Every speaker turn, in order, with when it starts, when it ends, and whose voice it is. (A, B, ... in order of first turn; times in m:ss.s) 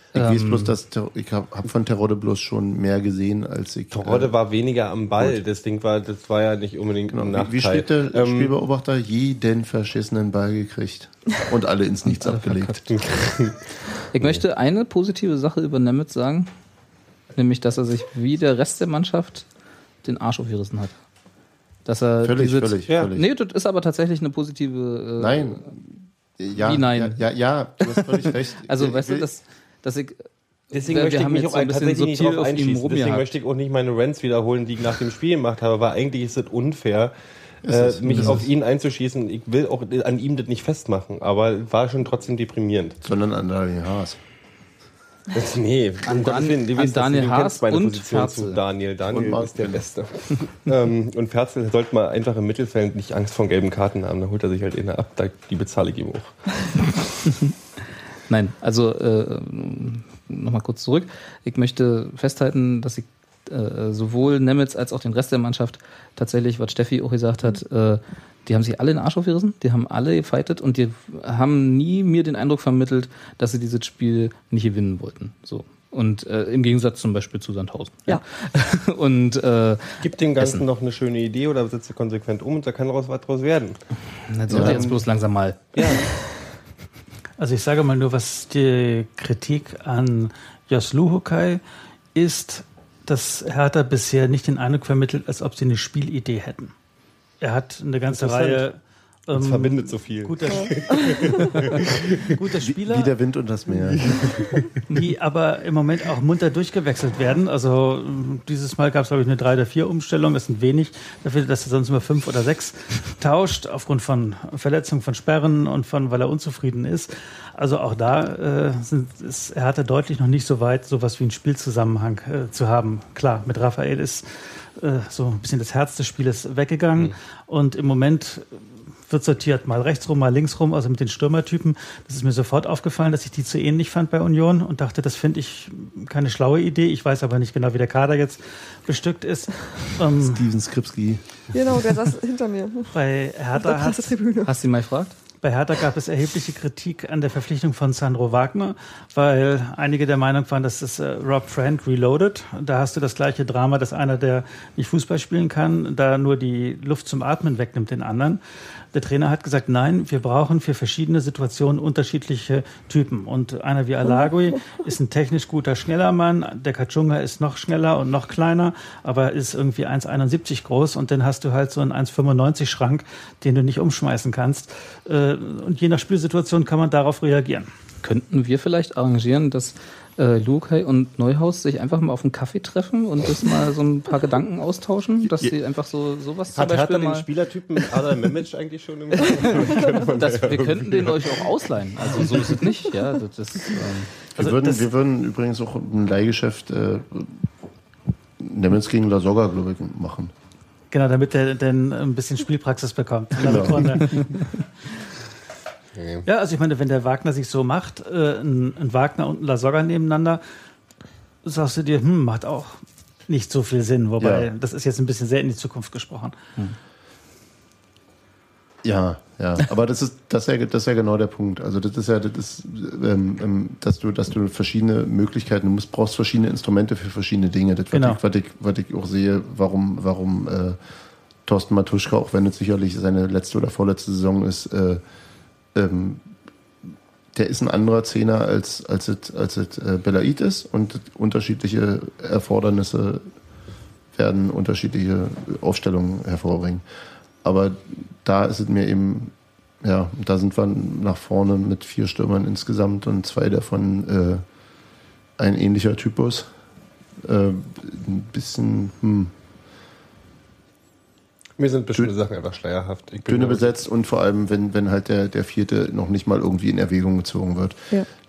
0:00.1-0:04.3 A
0:00.2-0:00.7 B
0:03.9-0:08.5 C
0:07.1-0:12.8 A
0:12.1-0:12.8 B
0:12.9-0:14.4 C
0:14.1-0:16.5 B
0:17.4-0:19.5 B
0:20.0-0:21.0 B
0:21.9-0:25.6 B
0:22.2-0:23.2 A
0:25.2-0:29.3 A
0:26.6-0:27.2 B
0:27.9-0:33.3 B
0:30.7-0:37.1 C
0:37.6-0:38.5 A
0:37.6-0:43.0 C
0:38.1-0:38.4 B
0:43.0-0:44.2 A
0:45.3-0:56.4 C
0:46.0-0:48.6 B
0:49.1-0:49.8 A
0:57.3-0:57.5 B
0:58.3-1:20.6 B
1:20.0-1:23.8 C
1:24.3-1:26.0 B
1:24.5-1:25.0 A
1:24.5-1:24.8 C
1:25.7-1:26.1 C
1:27.4-1:31.6 D
1:32.1-1:36.7 D
1:37.4-1:41.3 D
1:38.1-1:38.6 C
1:39.4-1:42.3 C
1:40.5-1:41.6 E
1:42.3-1:43.1 D
1:42.6-1:44.1 A
1:43.9-1:44.7 C
1:44.9-2:04.3 D
2:04.8-2:08.5 D
2:09.1-2:20.4 D
2:20.2-2:21.2 A
2:21.5-2:23.0 E
2:22.9-2:24.2 D
2:23.6-2:24.6 E
2:24.4-2:25.2 B
2:25.4-2:38.4 D
2:38.9-2:57.7 D
2:58.0-3:07.3 B
3:06.6-3:11.6 C
3:09.4-3:14.1 B
3:12.2-3:12.6 C
3:14.4-3:17.4 A
3:14.4-3:14.8 D
3:18.4-3:20.3 A
3:20.9-3:24.3 D
3:23.4-3:24.0 A
3:26.0-3:26.2 C
3:26.3-3:30.4 D
3:31.4-3:36.4 D
3:34.2-3:34.5 A
3:38.8-3:50.8 A
3:47.9-3:48.2 D
3:51.5-3:55.0 A
3:55.8-3:56.2 A
3:57.4-4:03.3 A
4:04.2-4:06.8 A
4:07.4-4:14.4 A
4:15.4-4:16.5 A
4:17.2-4:19.3 A
4:21.6-4:23.8 C
4:23.3-4:27.8 A